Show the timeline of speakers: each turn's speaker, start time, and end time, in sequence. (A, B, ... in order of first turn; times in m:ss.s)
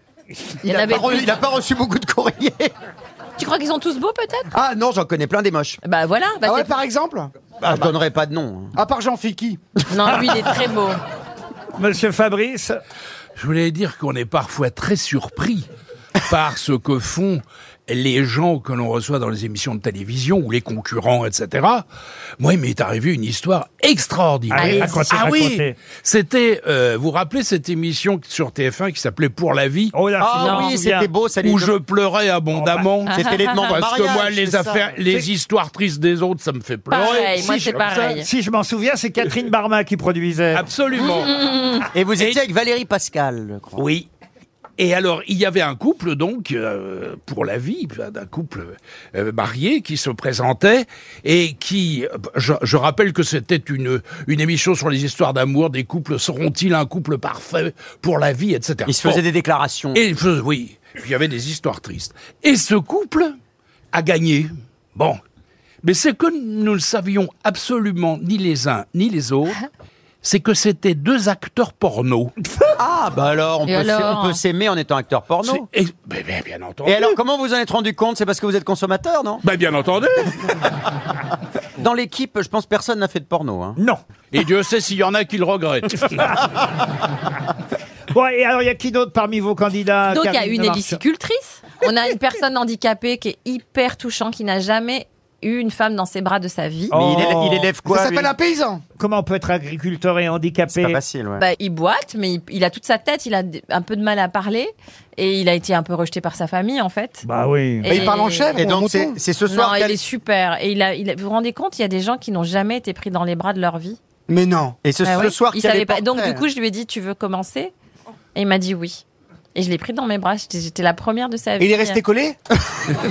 0:00.6-0:02.7 A
0:00.6-0:01.4 B
0:03.4-0:04.5 B
0:04.5-0:05.8 A
0:05.8-0:06.7 B
0:06.4-0:07.8 C
0:07.6-0:08.8 A
0:08.8-0:09.6 C
0:09.9-0:11.0 B
0:10.0-0:10.4 A
0:11.8-0:12.8 D
0:13.4-0:15.7 E
0:16.3-0:21.8 E
0:22.4-0:29.9 E
0:24.5-0:25.8 D
0:24.6-0:25.1 B
0:29.9-0:31.1 D
0:30.2-0:31.7 A
0:30.4-0:30.8 B
0:31.4-0:38.2 E
0:32.5-0:32.9 D
0:33.1-0:33.7 B
0:33.1-0:34.9 A
0:36.9-0:38.3 B
0:38.2-0:40.6 D
0:40.5-0:41.4 E
0:41.0-0:41.9 B
0:41.9-0:43.8 A
0:43.8-0:44.1 E
0:44.8-0:59.2 E
0:58.9-1:00.0 A
0:59.9-1:03.3 E
1:03.9-1:05.2 E
1:05.8-1:09.6 E
1:10.2-1:12.3 E
1:12.8-1:15.7 A
1:13.6-1:14.4 B
1:15.4-1:17.2 E
1:16.8-1:19.4 A
1:19.4-1:20.6 E
1:21.8-1:23.8 A
1:24.3-1:26.5 E
1:28.1-1:31.0 D
1:30.1-1:37.0 B
1:36.9-1:37.7 D
1:36.9-1:38.3 A
1:37.8-1:38.8 C
1:39.0-1:41.0 D
1:40.7-1:41.4 A
1:41.4-1:47.2 B
1:47.2-1:47.9 D
1:47.8-1:48.7 B
1:47.8-1:49.2 C
1:48.6-1:50.0 A
1:49.5-1:54.0 B
1:54.3-1:54.8 C
1:54.8-1:56.4 A
1:55.0-1:57.7 B
1:58.4-1:59.0 B
1:59.6-2:02.0 B
2:01.6-2:02.4 C